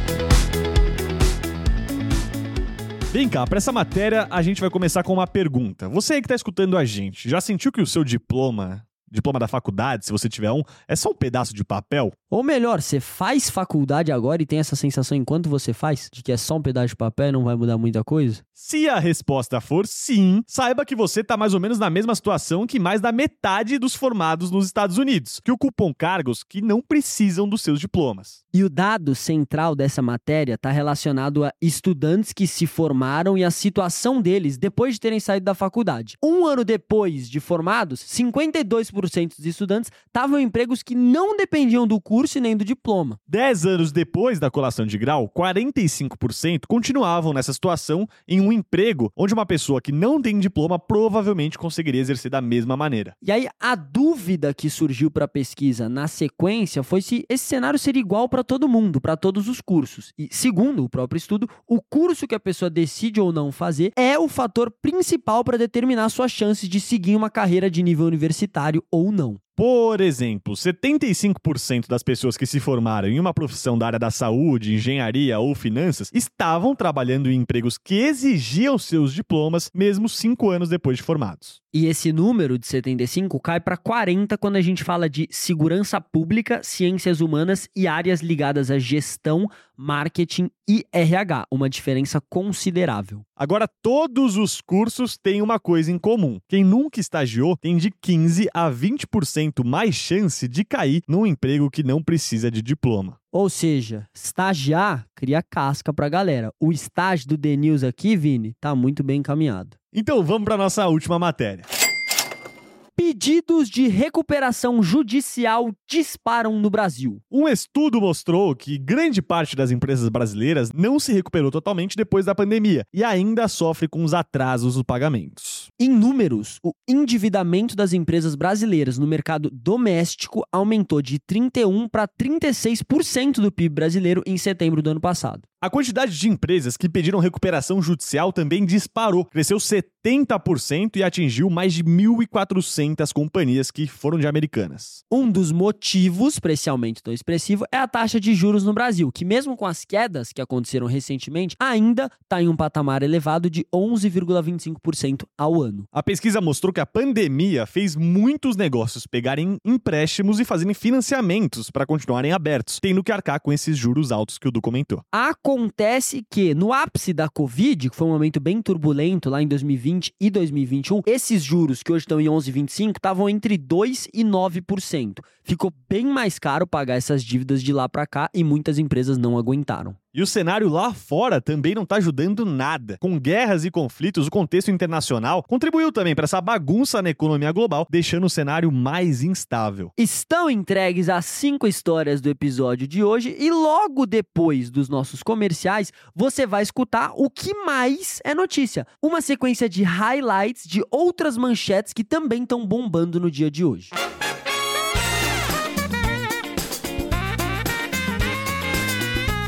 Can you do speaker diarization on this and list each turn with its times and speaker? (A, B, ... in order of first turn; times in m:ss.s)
0:03.1-0:12.1 A
0:12.3-0:18.4 B
0:18.6-0:28.4 A
0:28.5-0:43.2 B
0:43.3-0:53.1 A
0:53.2-1:09.4 B
1:09.6-1:21.6 A
1:21.7-1:33.2 B
1:33.4-1:43.2 A
1:43.3-1:49.7 B
1:49.9-1:51.7 A
1:53.0-1:57.2 B
1:57.3-2:05.7 A
2:05.8-2:15.4 B
2:15.6-2:25.0 A
2:25.1-2:35.9 B
2:35.9-2:45.0 A
2:45.1-3:00.0 B
3:00.1-3:09.9 A
3:10.0-3:23.9 B